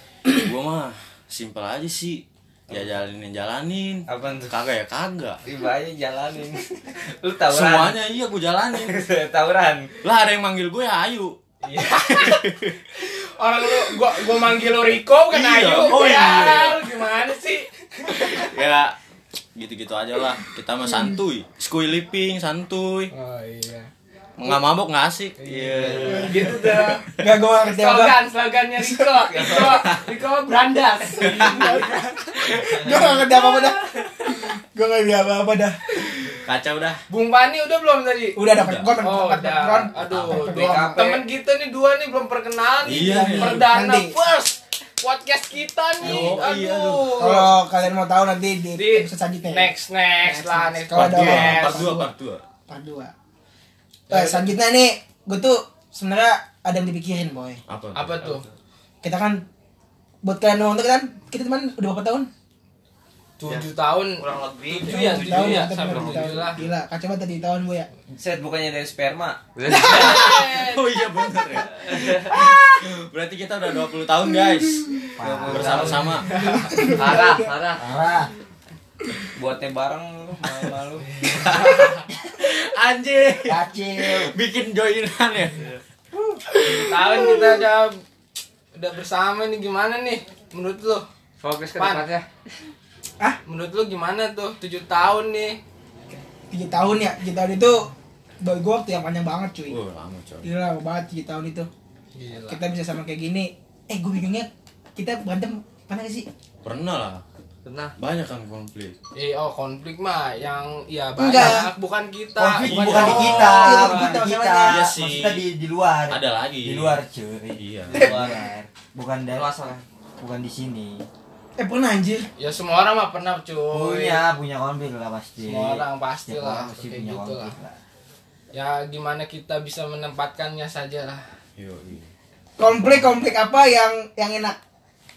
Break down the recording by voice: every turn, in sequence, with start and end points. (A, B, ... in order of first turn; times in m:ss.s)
0:00.3-0:05.4 A
0:04.1-0:04.6 B
0:05.4-0:08.0 B
0:07.4-0:09.0 A
0:08.7-0:09.9 B
0:10.0-0:11.4 A
0:11.6-0:12.4 C
0:12.0-0:12.8 A
0:13.0-0:18.5 C
0:15.3-0:16.9 A
0:18.1-0:19.0 A
0:19.6-0:23.1 A
0:23.1-0:23.9 C
0:24.4-0:26.8 A
0:25.4-0:27.0 C
0:26.3-0:26.9 B
0:27.1-0:28.2 D
0:27.6-0:31.9 C
0:28.8-0:29.1 D
0:29.4-0:29.9 B
0:31.2-0:36.4 D
0:36.4-0:37.0 A
0:37.1-0:38.4 C
0:38.4-0:41.2 D
0:38.5-0:39.0 A
0:39.0-0:47.6 C
0:40.1-0:40.6 A
0:40.6-0:41.2 B
0:42.8-0:43.7 A
0:43.0-0:44.2 D
0:46.0-0:47.1 A
0:46.0-0:46.4 D
0:47.2-0:49.7 D
0:48.8-0:51.9 C
0:50.2-0:52.1 D
0:50.9-0:52.4 A
0:52.7-0:53.1 D
0:54.1-0:54.5 C
0:54.1-0:57.6 D
0:57.7-0:58.3 A
0:57.9-0:58.4 C
0:59.0-0:59.4 D
1:00.2-1:02.3 D
1:03.4-1:06.6 C
1:04.2-1:04.9 E
1:04.8-1:07.9 D
1:05.0-1:06.1 B
1:08.1-1:10.2 B
1:09.6-1:09.9 E
1:09.7-1:10.3 D
1:09.8-1:10.8 C
1:09.9-1:16.3 A
1:11.7-1:12.3 E
1:15.2-1:15.9 F
1:15.2-1:16.1 B
1:16.3-1:17.5 D
1:17.0-1:17.8 E
1:17.8-1:18.3 F
1:19.4-1:21.4 B
1:21.2-1:21.8 A
1:21.6-1:22.0 C
1:22.4-1:25.7 A
1:23.5-1:24.4 F
1:26.5-1:27.2 A
1:26.6-1:28.0 C
1:28.7-1:31.0 C
1:31.6-1:32.2 E
1:31.8-1:32.1 C
1:33.4-1:35.6 C
1:36.5-1:37.9 D
1:38.4-1:39.8 D
1:39.7-1:40.5 A
1:40.4-1:41.7 D
1:42.2-1:42.6 C
1:42.5-1:46.3 D
1:46.6-1:47.2 A
1:47.6-1:47.9 E
1:48.0-1:49.0 A
1:49.2-1:53.5 C
1:51.2-1:51.7 D
1:52.4-1:59.5 F
1:52.6-1:53.7 A
1:52.9-1:54.8 D
1:54.6-1:55.5 A
1:56.1-1:57.0 A
1:57.6-1:58.1 A
1:57.9-1:58.4 D
1:59.4-1:59.8 E
2:00.2-2:01.1 F
2:01.6-2:02.3 D
2:02.4-2:04.3 C
2:03.7-2:07.8 F
2:05.4-2:07.6 C
2:08.5-2:11.2 C
2:11.6-2:12.1 A
2:12.6-2:14.6 D